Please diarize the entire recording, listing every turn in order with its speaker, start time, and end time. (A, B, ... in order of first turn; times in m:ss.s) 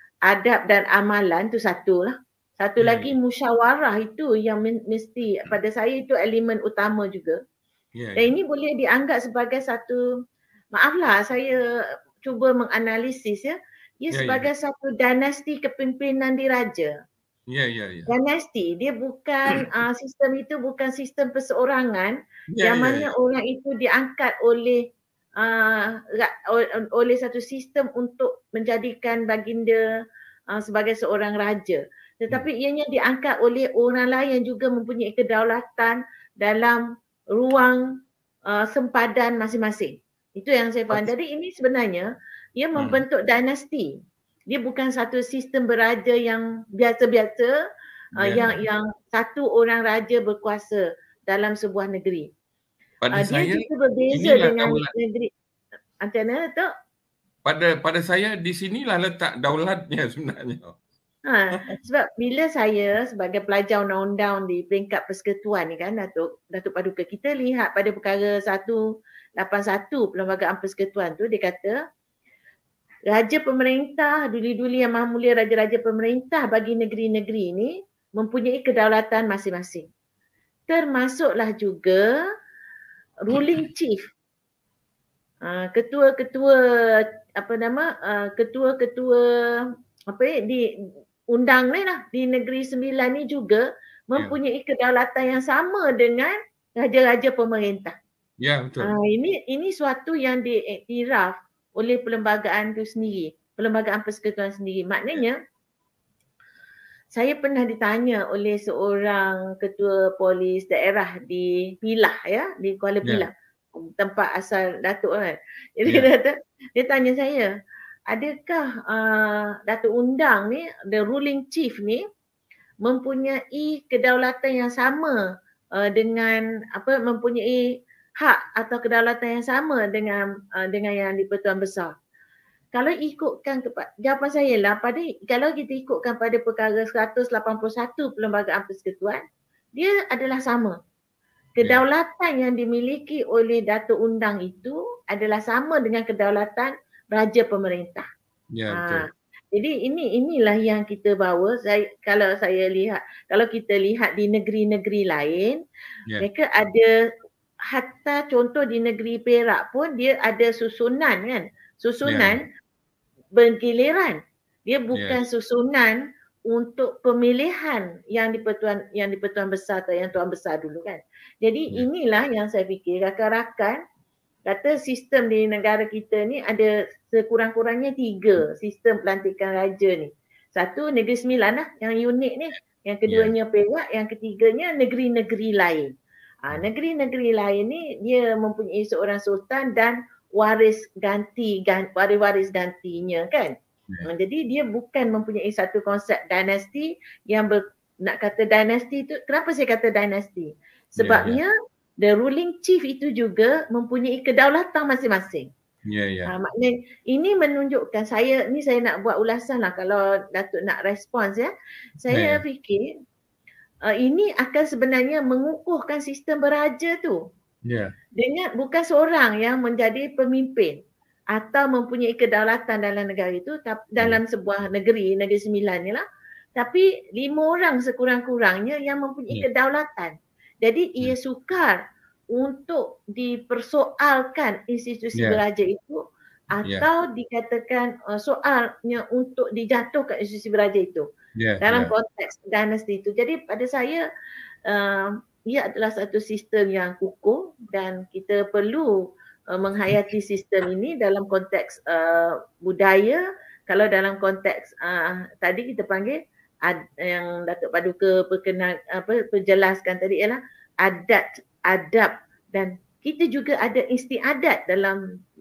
0:00.3-0:07.4 A
0:02.8-0:03.2 B
0:08.0-0:08.3 B
0:08.2-0:10.0 A
0:10.8-0:11.6 A
0:12.2-0:16.9 A
0:14.1-0:14.5 B
0:17.5-0:18.1 B
0:18.1-0:24.8 A
0:22.5-0:23.1 B
0:25.4-0:29.8 A
0:30.5-0:36.8 A
0:37.4-0:37.8 A
0:38.5-0:43.9 A
0:42.8-0:43.0 B
0:44.5-0:47.6 A
0:48.2-0:48.6 B
0:48.2-0:52.3 A
0:53.0-0:54.9 B
0:53.1-0:55.3 A
0:56.0-0:56.7 A
0:57.4-1:00.8 B
1:01.3-1:08.8 A
1:09.4-1:11.8 A
1:13.1-1:19.9 A
1:20.7-1:22.2 A
1:23.2-1:24.0 A
1:25.4-1:30.7 A
1:31.3-1:38.0 A
1:38.4-1:38.9 B
1:38.8-1:45.4 A
1:47.1-1:57.5 A
1:58.1-2:02.0 A
2:02.8-2:05.2 A
2:05.8-2:07.7 A
2:08.2-2:11.9 A
2:12.7-2:19.2 A
2:19.8-2:20.8 A
2:21.6-2:28.1 A
2:28.5-2:29.1 B
2:28.7-2:35.6 A
2:36.2-2:36.9 A
2:37.7-2:42.4 A
2:42.0-2:42.4 B
2:43.4-2:53.8 A
2:44.9-2:45.2 B
2:54.5-3:05.9 A
3:03.1-3:03.3 B
3:06.4-3:21.5 A
3:21.0-3:21.4 B
3:22.0-3:25.5 A
3:25.9-3:26.3 B
3:26.3-3:31.5 A
3:32.0-3:32.9 A
3:32.1-3:32.4 B
3:33.9-3:37.2 A
3:37.6-3:37.9 B
3:38.2-3:40.8 A
3:41.3-3:46.0 A
3:46.6-3:51.8 A
3:52.3-4:01.1 A
3:55.2-3:55.4 B
4:01.4-4:01.9 B
4:01.6-4:04.0 A
4:04.7-4:09.0 A
4:09.5-4:25.0 A